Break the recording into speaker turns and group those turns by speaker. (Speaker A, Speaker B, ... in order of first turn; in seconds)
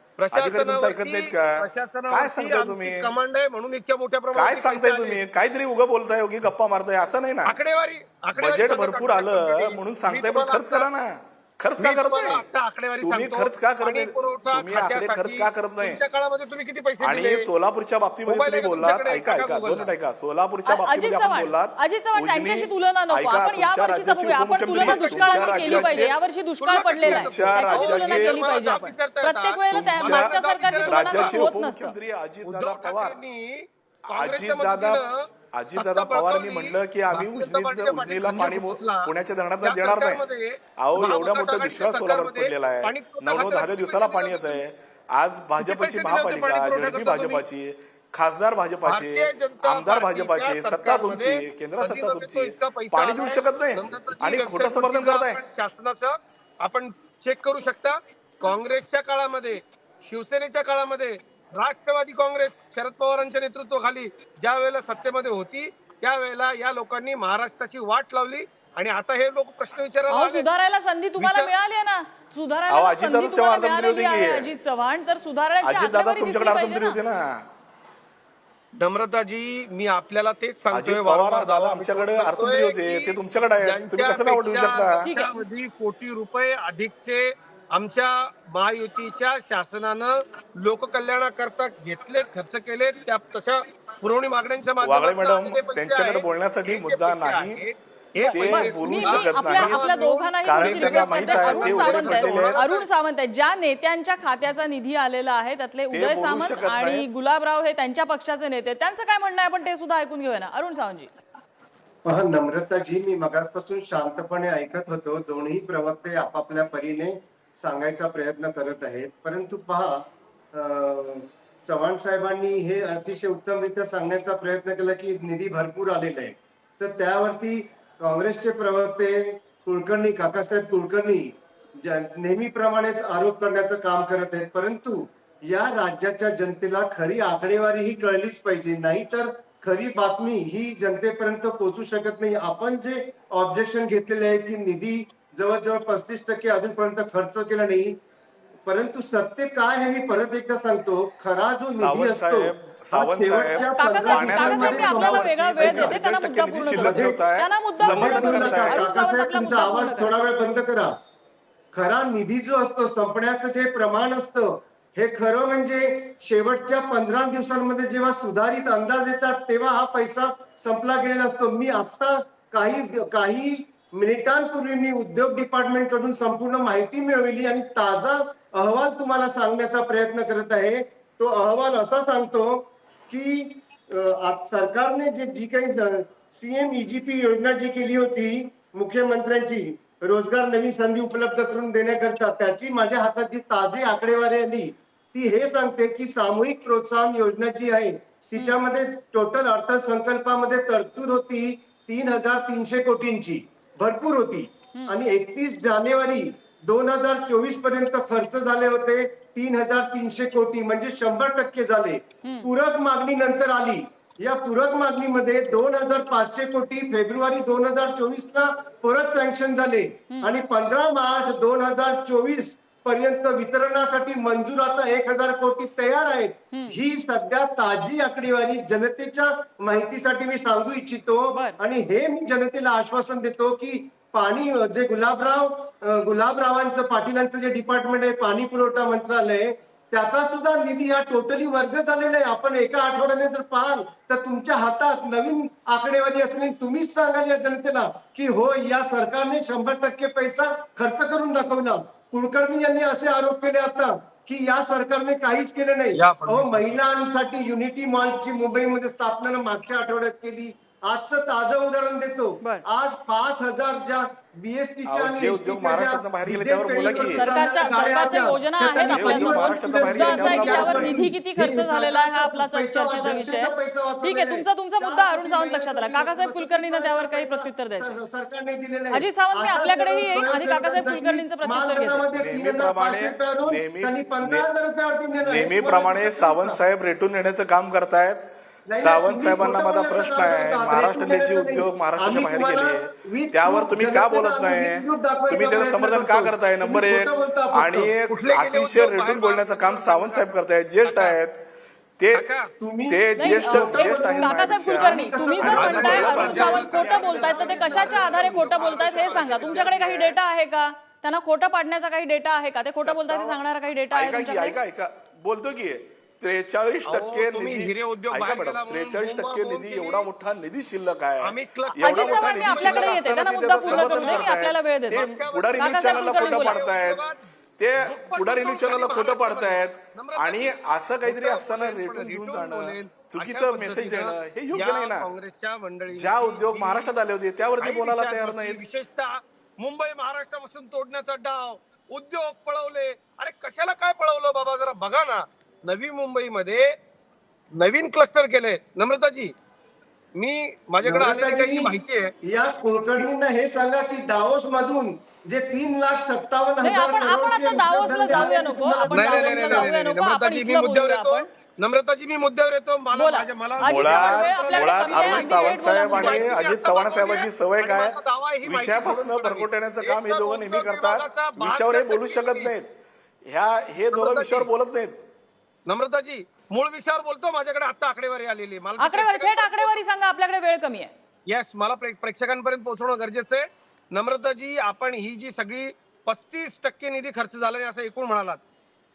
Speaker A: 0.2-5.2, 7.4-10.9, 11.8-17.5, 18.2-19.9, 24.7-31.4, 32.4-35.2, 35.8-44.6, 45.6-47.4, 48.9-70.4, 71.2-71.5, 78.8-102.8, 255.9-256.8, 298.1-300.3, 300.8-301.2, 302.1-302.5, 305.4-309.6, 316.9-320.1, 321.2-327.1, 327.8-336.9, 337.6-346.7, 347.6-349.3, 350.1-352.1, 358.8-372.5, 373.9-374.5, 375.7-379.7, 381.3-388.4
Speaker B: 0.3-3.1, 4.3-7.6, 8.4-12.4, 13.0-16.0, 17.0-26.1, 27.0-28.4, 29.7-33.2, 34.1-40.2, 40.8-55.4, 72.7-74.5, 75.6-77.5, 80.7-85.0, 94.8-97.6, 98.3-99.8, 100.4-102.6, 105.9-107.0, 151.7-158.9, 264.9-267.3, 268.8-271.1, 282.1-284.5, 285.2-301.4, 302.0-302.3, 302.9-310.2, 312.7-313.4, 313.9-327.0, 327.6-335.1, 335.9-338.6, 363.6-372.7, 373.2-375.0
Speaker C: 20.6-31.9, 70.1-77.0, 85.0-85.3, 98.2-111.1, 153.7-160.1, 212.2-212.5, 226.5-226.8, 231.3-231.6, 266.9-278.0, 278.9-282.1, 303.2-314.6, 321.8-325.0, 325.6-326.6, 356.6-361.2, 362.9-366.3, 378.8-380.9
Speaker D: 112.0-148.0, 148.6-156.0, 156.7-157.2, 157.8-160.9, 161.7-286.6, 288.7-297.9, 302.6-308.8, 350.8-351.7, 352.2-359.7